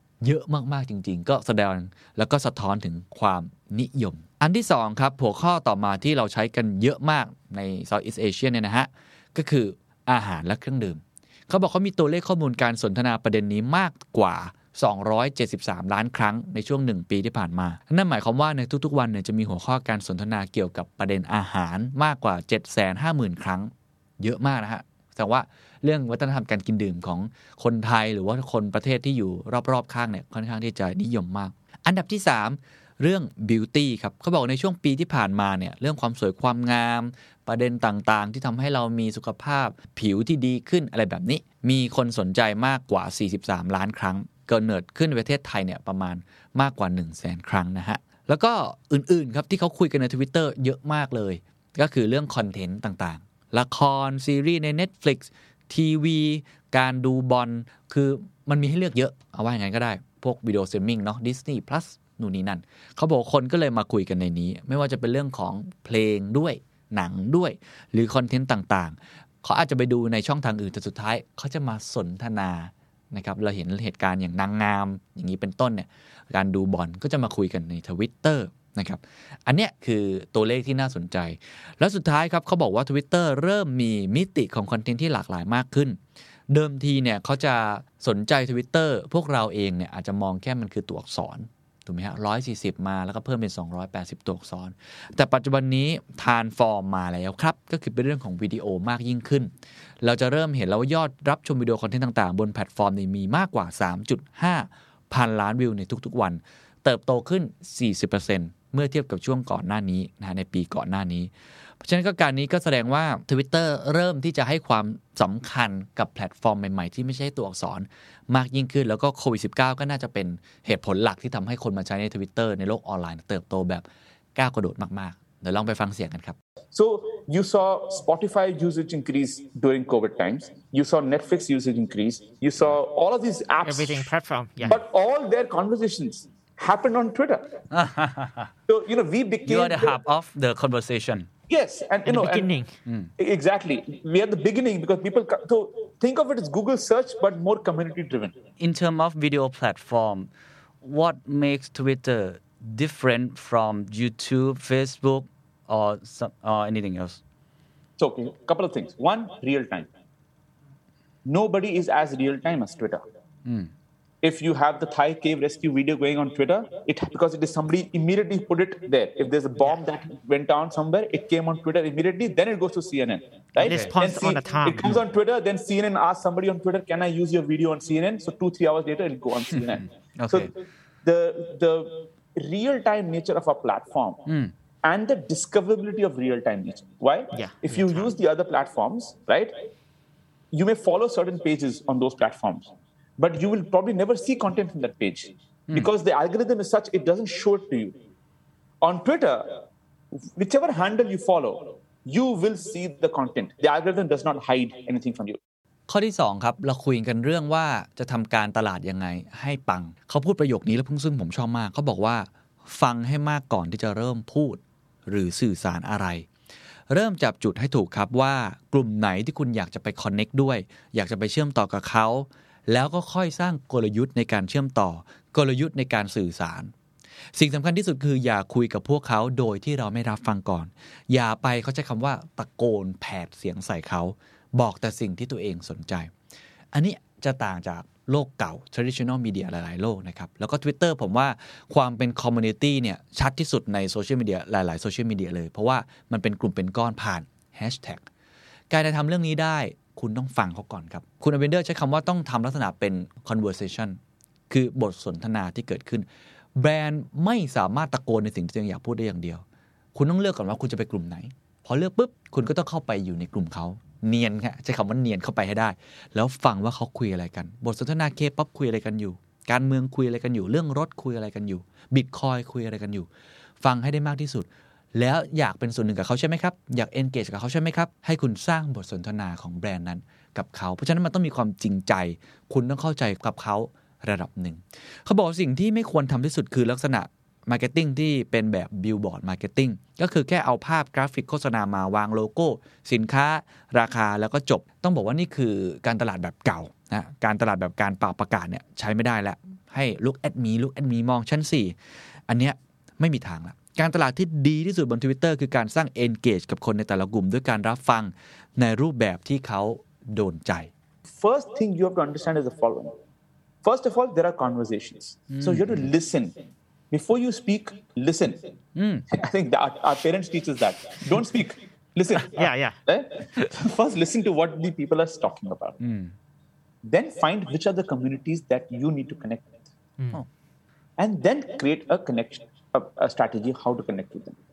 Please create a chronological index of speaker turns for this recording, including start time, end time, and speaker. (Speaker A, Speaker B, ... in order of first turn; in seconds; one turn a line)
Speaker A: 0.2-86.0
Speaker A: 86.5-99.5
Speaker A: 100.0-126.4
Speaker B: 126.7-134.1
Speaker C: 133.7-134.8
Speaker B: 134.6-137.6
Speaker B: 138.7-140.0
Speaker A: 139.5-141.3
Speaker B: 141.5-142.5
Speaker C: 142.1-142.7
Speaker B: 143.2-148.4
Speaker D: 148.6-150.3
Speaker D: 150.8-157.2
Speaker B: 158.0-159.9
Speaker B: 161.2-163.0
Speaker D: 163.4-163.7
Speaker B: 164.2-180.5
Speaker C: 173.6-175.0
Speaker D: 173.6-173.9
Speaker D: 179.7-180.5
Speaker B: 181.0-184.3
Speaker D: 184.3-184.5
Speaker B: 184.8-189.6
Speaker C: 187.3-188.1
Speaker B: 190.5-197.9
Speaker B: 198.8-199.6
Speaker B: 200.3-205.4
Speaker A: 205.9-216.3
Speaker A: 216.9-226.7
Speaker A: 227.3-236.1
Speaker A: 236.7-248.1
Speaker A: 248.7-254.0
Speaker A: 254.5-256.1
Speaker A: 256.6-259.4
Speaker A: 259.9-273.1
Speaker A: 273.6-301.7
Speaker A: 302.3-310.7
Speaker B: 311.1-313.0
Speaker B: 313.6-316.4
Speaker D: 315.3-315.7
Speaker B: 316.9-318.4
Speaker D: 318.8-319.0
Speaker B: 319.1-325.8
Speaker C: 322.4-322.8
Speaker D: 325.8-326.1
Speaker B: 326.9-329.5
Speaker B: 331.0-334.4